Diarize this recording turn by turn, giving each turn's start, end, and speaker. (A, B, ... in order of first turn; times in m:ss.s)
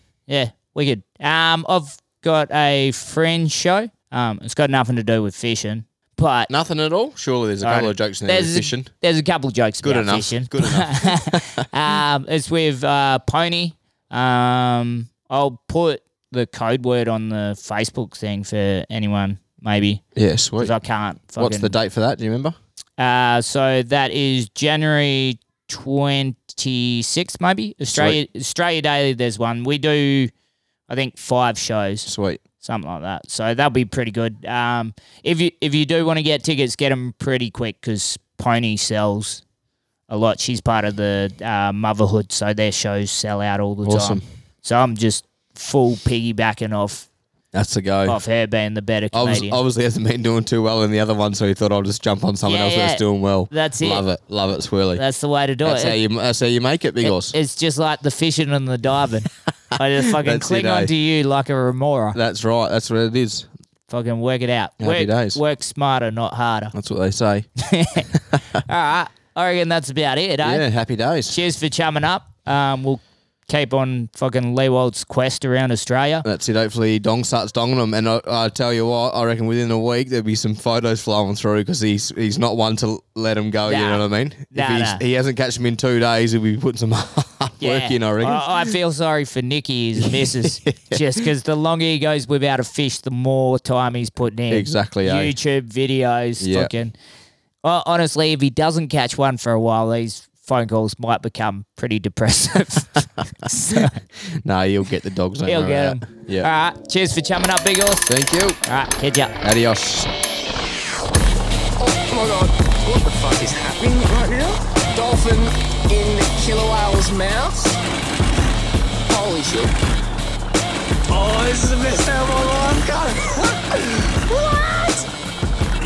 0:00.3-0:06.5 A
0:06.5-0:08.9 B
0:07.6-0:20.0 A
0:09.8-0:11.6 B
0:20.2-0:20.8 B
0:20.6-0:21.8 A
0:21.4-0:22.6 B
0:23.0-0:30.3 A
0:27.9-0:28.2 B
0:30.9-0:39.4 A
0:32.1-0:32.4 B
0:40.1-0:47.1 A
0:43.8-0:44.2 B
0:47.5-0:48.2 B
0:48.1-0:49.6 A
0:49.1-0:55.0 B
0:52.4-0:54.1 A
0:55.0-0:56.0 A
0:55.6-0:57.4 B
0:57.0-1:02.2 A
1:00.0-1:00.9 B
1:02.1-1:03.5 B
1:03.9-1:06.8 A
1:04.8-1:05.4 B
1:06.7-1:07.5 B
1:07.6-1:08.1 A
1:08.1-1:08.4 B
1:08.6-1:10.6 A
1:10.4-1:11.4 B
1:11.3-1:16.3 A
1:16.2-1:28.7 B
1:23.7-1:25.0 A
1:27.6-1:37.0 A
1:30.0-1:31.2 B
1:34.5-1:35.3 B
1:36.4-1:36.7 B
1:37.6-1:44.0 A
1:43.8-1:46.5 B
1:45.4-1:49.3 A
1:48.1-1:48.6 B
1:49.4-1:50.1 B
1:51.8-1:57.8 C
1:59.1-1:59.7 C
2:01.1-2:05.1 C